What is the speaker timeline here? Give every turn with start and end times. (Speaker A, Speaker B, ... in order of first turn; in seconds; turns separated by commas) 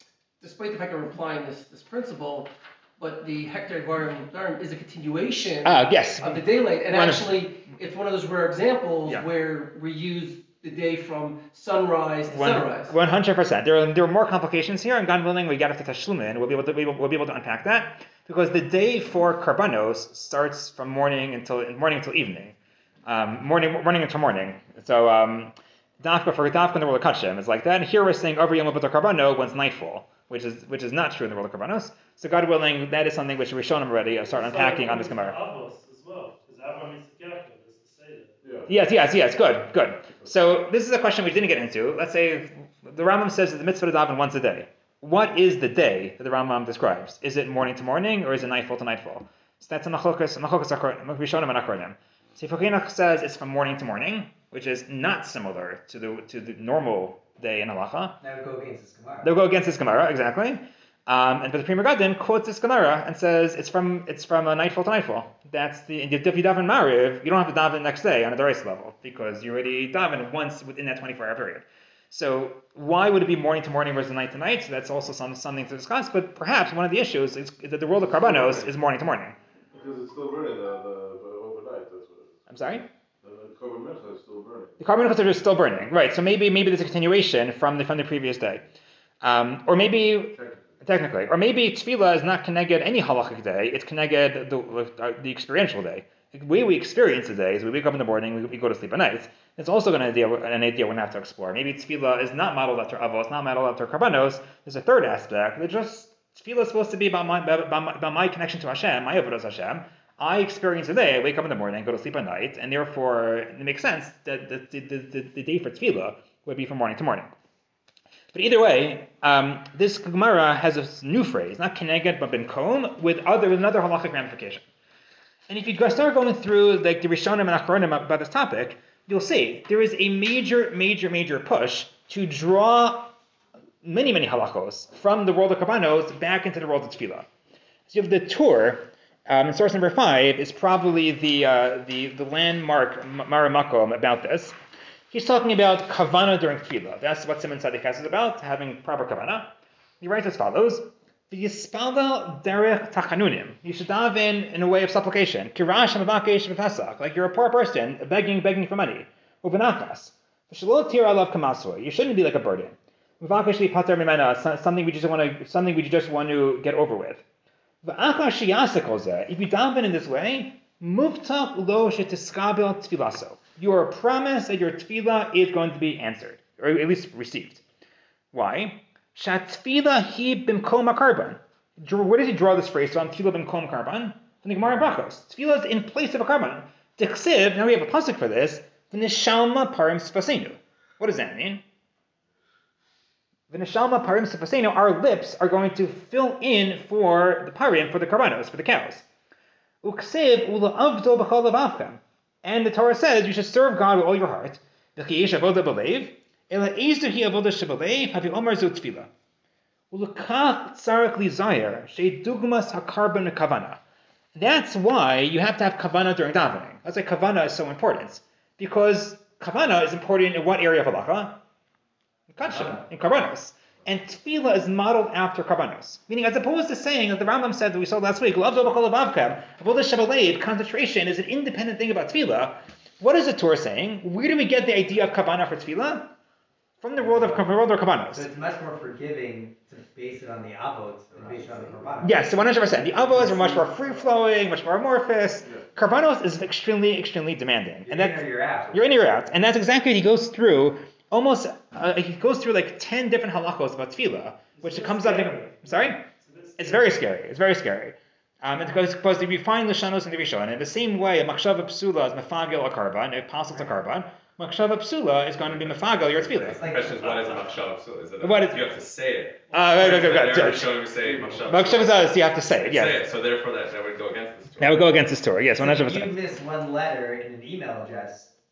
Speaker A: 0.4-13.0, Speaker B: 5.6-7.3, Speaker B: 12.3-35.4, Speaker C: 34.2-38.3, Speaker D: 38.4-38.7, Speaker B: 38.7-58.2, Speaker E: 58.2-59.3, Speaker B: 59.2-79.4, Speaker D: 77.9-78.7, Speaker D: 79.7-84.8, Speaker B: 82.5-82.8, Speaker B: 84.8-88.6, Speaker B: 89.2-117.3, Speaker D: 90.3-90.7, Speaker B: 118.3-124.6, Speaker B: 125.5-133.2, Speaker B: 133.8-137.3, Speaker B: 137.9-144.6, Speaker B: 145.1-167.2, Speaker B: 167.8-177.6, Speaker B: 178.3-191.6, Speaker B: 193.5-199.1, Speaker B: 199.8-209.1, Speaker B: 209.9-213.8, Speaker B: 214.3-221.4, Speaker B: 222.3-236.1, Speaker B: 236.8-238.3, Speaker E: 237.0-237.5, Speaker E: 238.1-242.2, Speaker D: 241.6-241.9, Speaker B: 242.0-256.0, Speaker E: 243.0-244.0, Speaker D: 243.1-243.3, Speaker E: 247.8-248.9, Speaker C: 254.6-256.8, Speaker B: 256.6-266.6, Speaker F: 266.2-272.0, Speaker E: 266.3-267.7, Speaker B: 268.2-268.7, Speaker B: 269.5-270.8, Speaker D: 271.0-271.5, Speaker B: 271.4-273.0, Speaker F: 272.6-274.9, Speaker B: 274.6-276.2, Speaker E: 275.6-278.3